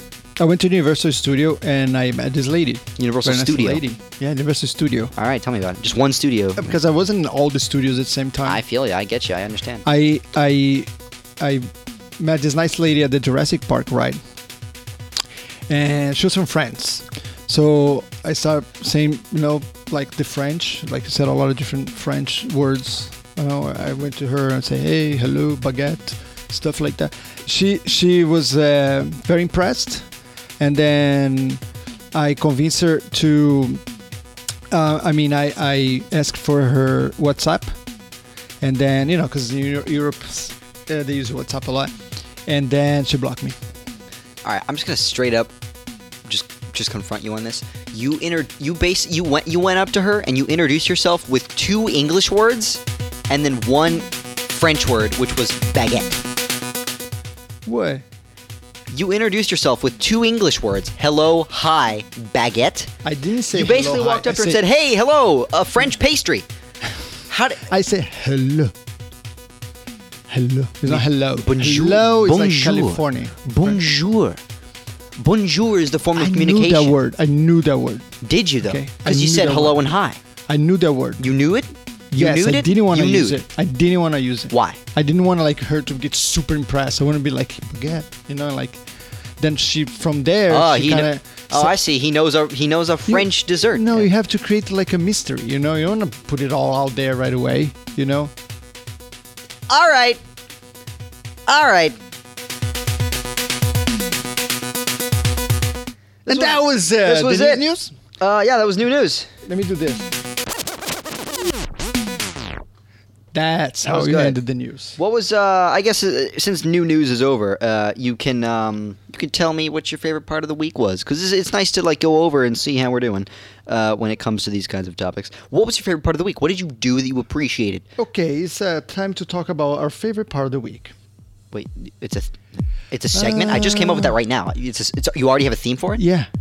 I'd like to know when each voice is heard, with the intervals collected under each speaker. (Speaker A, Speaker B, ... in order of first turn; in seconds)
Speaker A: 0.4-5.1, 6.6-8.6, 9.8-10.9, 11.4-11.7, 12.2-14.2, 15.7-30.1, 30.6-31.6, 32.1-33.8, 34.7-37.7, 38.6-41.9, 42.5-43.6, 57.6-58.0, 63.0-64.6, 67.7-68.7, 70.3-73.8, 76.1-78.1, 78.6-79.8, 80.5-81.2, 82.1-88.8, 89.4-91.7, 93.1-98.3, 106.2-107.9, 109.4-110.1, 113.3-115.0, 128.0-130.9, 133.1-134.2, 136.0-136.3
Speaker B: 3.0-3.8, 5.2-6.8, 8.4-9.8, 44.4-45.5, 46.2-56.2, 58.9-62.9, 63.5-66.5, 67.3-67.6, 70.8-74.4, 75.2-77.0, 78.2-80.2, 81.2-83.4, 84.5-84.8, 90.5-94.1, 99.7-100.2, 101.5-102.0, 106.2-107.6, 108.2-109.3, 113.8-114.4, 115.0-127.8, 131.5-132.4, 132.9-136.0